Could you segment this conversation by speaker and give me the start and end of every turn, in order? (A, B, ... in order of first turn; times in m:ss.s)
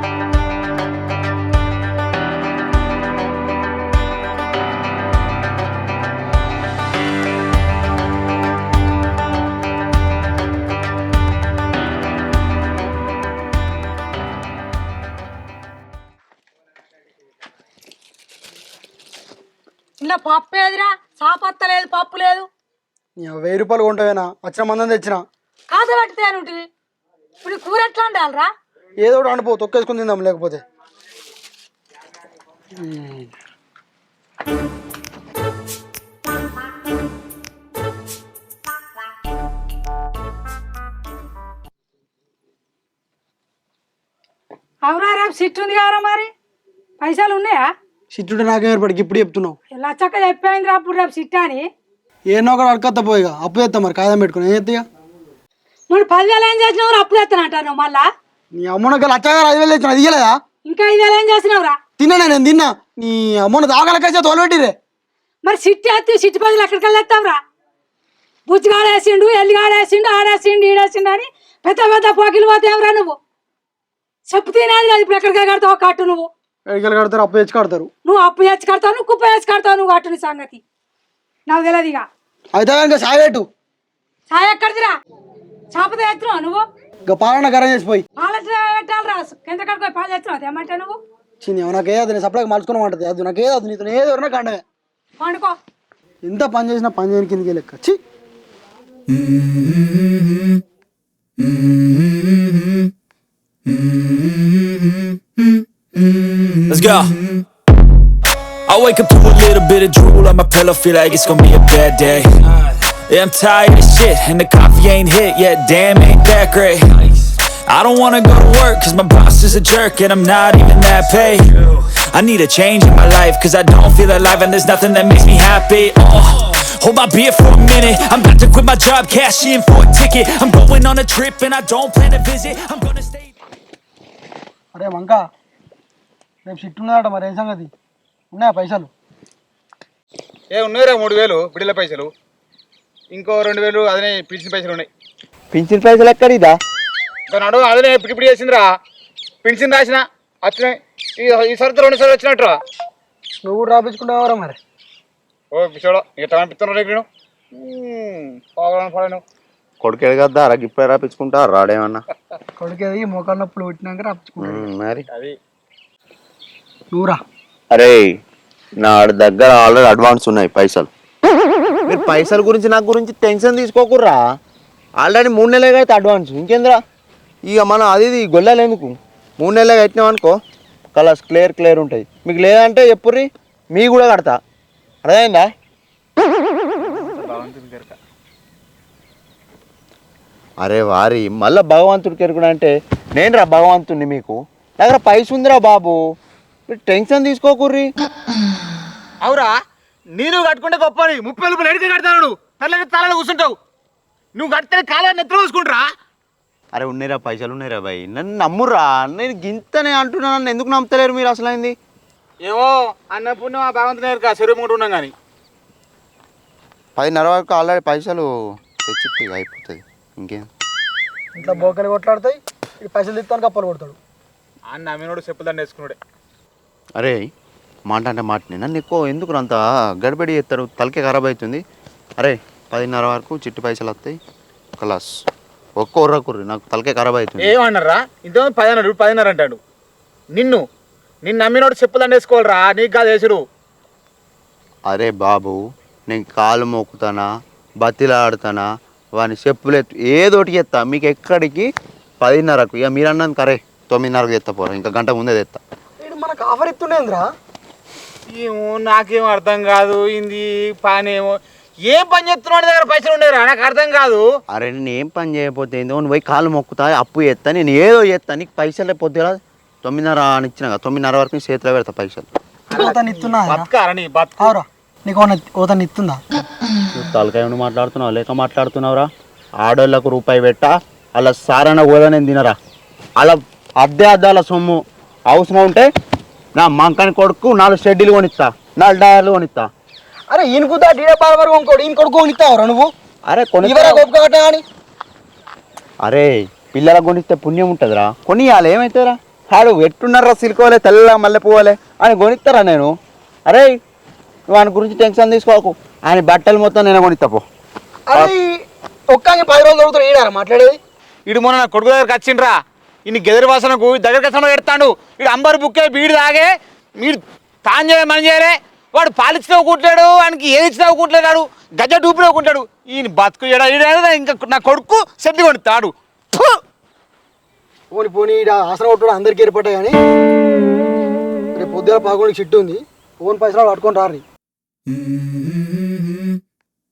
0:20.0-0:22.5 A
0:23.2-0:25.2 B
0:25.7-0:26.7 A
0:27.4-0:28.5 A
0:29.0-0:30.6 B
0:32.8-0:33.3 B
0:44.8-0:46.3 A
0:47.0-0:47.7 A
0:48.1-0:49.6 B
0:49.7-0:51.7 A
0:52.3-0:54.8 B
0:55.9-0:58.1 A
0:58.6-1:00.3 B
1:00.6-1:01.8 A
1:02.0-1:04.7 B
1:05.4-1:07.4 A
1:08.5-1:13.2 A
1:14.3-1:16.3 A
1:16.7-1:17.9 B
1:18.0-1:20.6 A
1:21.5-1:22.1 A
1:22.5-1:23.4 B
1:24.3-1:25.0 A
1:25.7-1:26.6 A
1:27.1-1:28.0 B
1:28.2-1:31.0 A
1:31.4-1:34.6 B
1:35.2-1:35.6 A
1:36.2-1:38.0 B
1:46.7-1:47.2 C
1:48.7-2:13.3 C
2:14.7-2:15.2 B
2:16.4-2:17.7 B
2:18.3-2:18.9 B
2:20.5-2:22.1 D
2:23.1-2:24.9 D
2:25.5-2:26.5 E
2:27.3-2:28.7 D
2:29.4-2:32.6 D
2:33.4-2:34.6 B
2:35.5-2:37.0 D
2:37.6-2:39.2 D
2:39.8-2:42.0 E
2:42.6-2:44.7 B
2:44.4-2:45.0 E
2:46.9-2:47.2 B
2:47.7-2:48.1 E
2:48.8-2:50.9 E
2:51.9-2:54.2 E
2:55.0-2:56.8 E
2:57.5-3:00.3 E
3:00.9-3:04.3 E
3:05.0-3:05.4 E
3:07.3-3:07.9 D
3:10.6-3:16.0 E
3:16.7-3:17.9 E
3:19.2-3:19.5 D
3:20.2-3:23.6 D
3:24.4-3:25.8 D
3:26.7-3:31.7 E
3:32.4-3:35.1 D
3:37.0-3:38.2 E
3:38.8-3:40.4 E
3:41.4-3:44.0 B
3:41.4-3:41.7 D
3:44.7-3:46.0 D
3:47.9-3:51.6 E
3:52.2-3:54.1 E
3:54.8-3:55.1 E
3:55.8-3:57.5 E
3:57.4-3:59.6 D
4:00.3-4:00.6 D
4:01.2-4:03.4 D
4:04.9-4:05.6 E
4:06.1-4:07.2 E
4:07.8-4:08.6 E
4:09.2-4:11.7 E
4:12.2-4:15.6 E
4:16.0-4:17.2 B
4:18.3-4:21.4 D
4:21.9-4:24.2 D
4:24.5-4:32.3 E
4:32.7-4:34.6 D
4:32.8-4:33.6 B
4:34.4-4:36.2 B
4:37.0-4:39.1 E
4:39.6-4:42.5 E
4:43.2-4:44.8 E
4:45.3-4:45.8 E
4:46.6-4:49.7 E
4:50.3-4:52.9 B
4:53.3-4:54.0 E
4:53.6-4:54.6 B
4:56.0-5:02.9 E
5:04.5-5:07.4 E
5:08.1-5:08.5 B
5:09.1-5:10.8 B
5:11.3-5:12.5 D
5:13.1-5:16.5 D
5:17.0-5:26.6 D
5:27.9-5:30.0 B
5:31.5-5:34.2 B